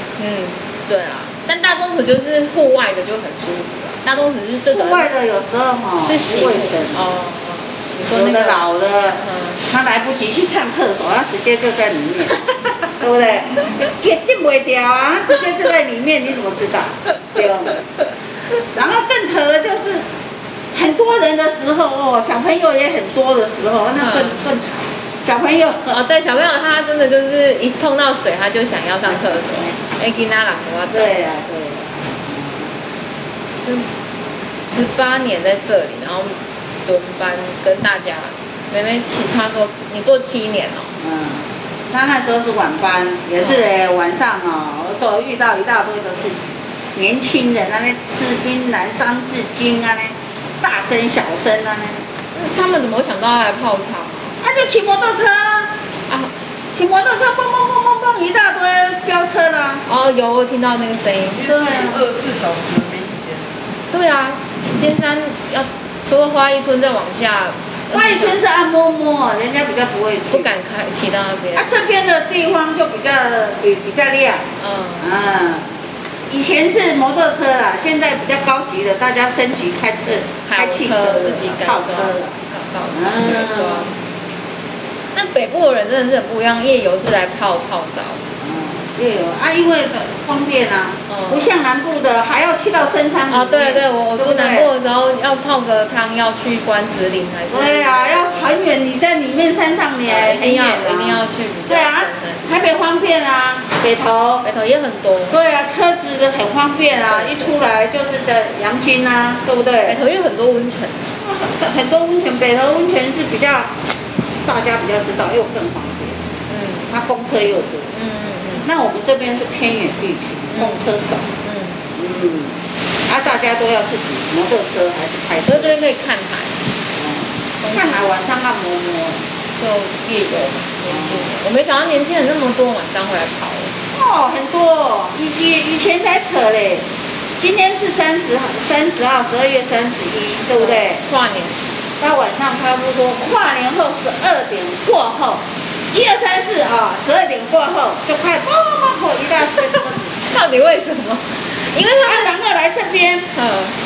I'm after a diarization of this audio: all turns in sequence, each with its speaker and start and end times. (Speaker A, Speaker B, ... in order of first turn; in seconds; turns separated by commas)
Speaker A: 0.2-5.2, Speaker B: 4.7-7.1, Speaker A: 6.0-8.7, Speaker B: 8.1-17.8, Speaker A: 9.2-9.6, Speaker B: 18.7-20.0, Speaker B: 20.7-26.0, Speaker A: 24.0-24.4, Speaker A: 25.9-31.2, Speaker B: 29.1-29.8, Speaker B: 30.9-32.8, Speaker A: 33.6-33.9, Speaker A: 34.6-40.9, Speaker B: 41.0-52.0, Speaker A: 43.4-43.7, Speaker A: 52.3-54.4, Speaker B: 54.4-55.7, Speaker B: 56.7-59.9, Speaker A: 59.9-61.5, Speaker C: 61.3-63.7, Speaker B: 61.5-62.0, Speaker A: 63.9-68.4, Speaker B: 67.9-70.5, Speaker A: 70.3-71.7, Speaker B: 71.6-74.5, Speaker A: 74.6-75.1, Speaker B: 75.0-75.7, Speaker B: 76.3-82.4, Speaker A: 80.4-84.0, Speaker B: 82.9-83.9, Speaker A: 85.1-88.2, Speaker B: 88.4-94.7, Speaker A: 91.1-91.5, Speaker A: 93.3-98.6, Speaker B: 97.5-104.5, Speaker A: 100.0-102.5, Speaker A: 104.4-105.4, Speaker B: 105.3-110.0, Speaker A: 106.9-107.5, Speaker A: 109.9-111.1, Speaker B: 111.2-113.7, Speaker B: 114.5-116.3, Speaker A: 116.5-116.9, Speaker B: 116.9-117.9, Speaker A: 117.9-118.7, Speaker B: 118.6-121.3, Speaker A: 120.5-120.9, Speaker A: 121.4-121.8, Speaker B: 122.0-122.6, Speaker B: 123.1-125.8, Speaker A: 125.5-126.6, Speaker B: 127.0-129.2, Speaker A: 127.6-128.1, Speaker A: 129.6-133.7, Speaker B: 130.8-131.3, Speaker B: 133.9-136.8, Speaker B: 137.4-141.0, Speaker A: 140.6-141.6, Speaker B: 142.0-150.2, Speaker A: 150.3-152.3, Speaker B: 151.9-153.3, Speaker A: 153.3-153.7